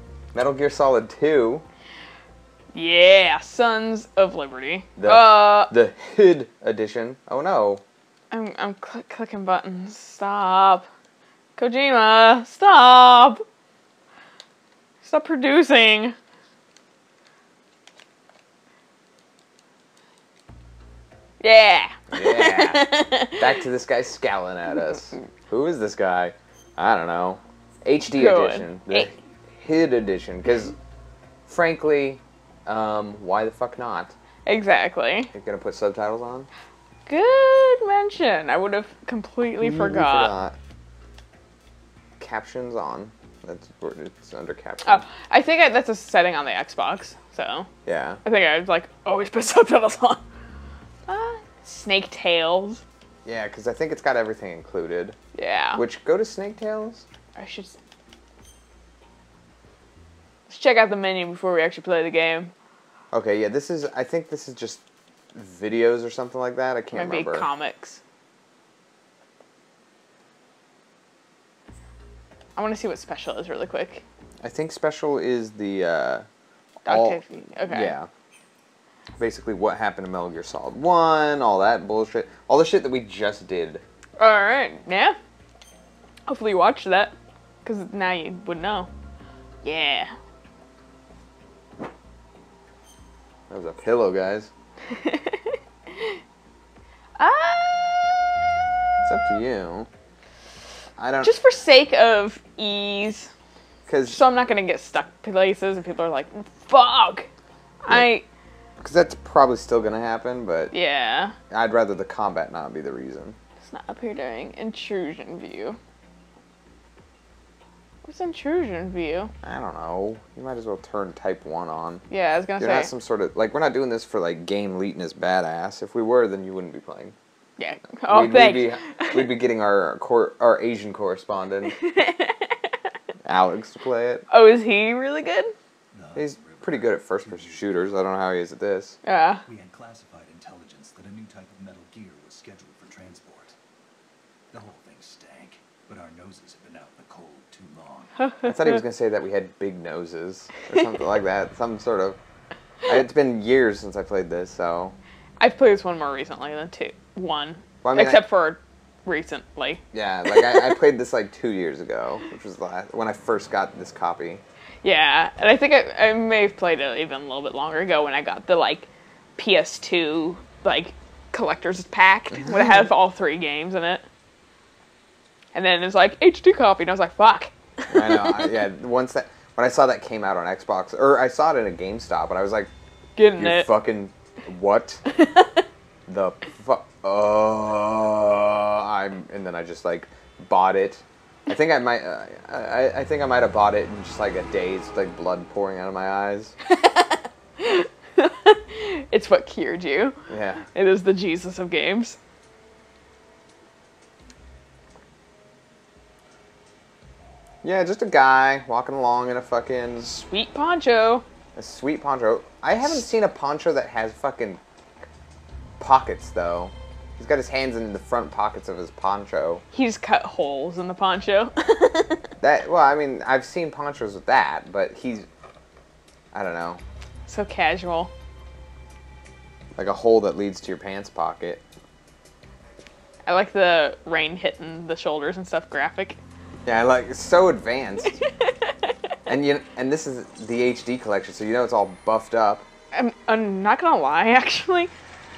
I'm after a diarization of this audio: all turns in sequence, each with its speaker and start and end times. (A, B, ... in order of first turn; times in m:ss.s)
0:00.3-0:01.6 A
0:02.7-0:05.7 B
0:05.0-0:07.8 A
0:08.3-0:10.9 B
0:11.6-0:13.4 B
0:15.0-0:16.2 B
0:21.4-0:23.4 B
0:22.1-0:30.8 A
0:28.1-0:29.1 B
0:31.5-0:34.1 A
0:34.4-0:35.3 B
0:35.3-0:36.5 A
0:37.1-0:40.3 B
0:39.6-0:40.6 A
0:42.2-0:45.0 A
0:44.8-0:47.7 B
0:47.8-0:48.2 A
0:48.2-0:50.2 B
0:51.1-0:52.8 B
0:53.2-0:55.2 A
0:55.3-0:55.8 B
0:55.8-0:57.0 A
0:57.4-0:57.8 B
1:00.5-1:02.5 B
1:03.1-1:07.5 A
1:06.9-1:08.0 B
1:12.6-1:14.0 B
1:14.4-1:16.2 A
1:16.8-1:18.0 B
1:16.8-1:18.1 A
1:19.2-1:23.8 A
1:24.2-1:25.2 B
1:26.3-1:28.9 B
1:29.6-1:30.1 B
1:33.5-1:34.5 A
1:34.9-1:36.2 B
1:37.2-1:38.3 B
1:39.0-1:39.9 A
1:41.0-1:41.4 A
1:41.2-1:43.3 B
1:43.9-1:44.2 A
1:44.0-1:47.3 B
1:47.8-1:48.2 B
1:48.8-1:50.7 A
1:50.7-1:51.4 B
1:51.5-1:53.4 A
1:53.6-1:55.8 B
1:58.0-1:59.3 B
1:59.4-2:02.0 A
2:02.1-2:02.9 B
2:02.6-2:07.1 A
2:07.6-2:09.4 B
2:08.1-2:11.8 A
2:11.8-2:12.8 B
2:13.2-2:14.2 A
2:14.3-2:15.5 B
2:15.9-2:18.0 C
2:16.1-2:19.0 A
2:19.0-2:19.4 B
2:19.4-2:23.6 C
2:24.5-2:28.3 C
2:28.3-2:28.5 B
2:28.4-2:32.2 A
2:32.9-2:34.9 A
2:35.4-2:40.6 B
2:37.8-2:38.2 A
2:39.9-2:44.4 A
2:44.8-2:54.0 B
2:55.5-2:58.2 B
2:57.9-3:02.7 A
3:03.2-3:03.7 B
3:03.4-3:05.0 A
3:05.1-3:05.6 B
3:06.1-3:16.5 A
3:16.7-3:22.2 B
3:20.3-3:20.6 A
3:27.6-3:30.1 A
3:30.0-3:31.2 B
3:31.5-3:34.6 A
3:35.8-3:39.6 A
3:39.7-3:42.3 B
3:42.4-3:45.3 A
3:46.3-3:46.8 A
3:47.3-3:48.1 B
3:49.8-3:51.6 A
3:53.2-3:56.2 B
3:56.6-3:58.2 A
3:58.4-3:58.7 B
3:59.3-4:02.6 A
4:02.9-4:04.9 B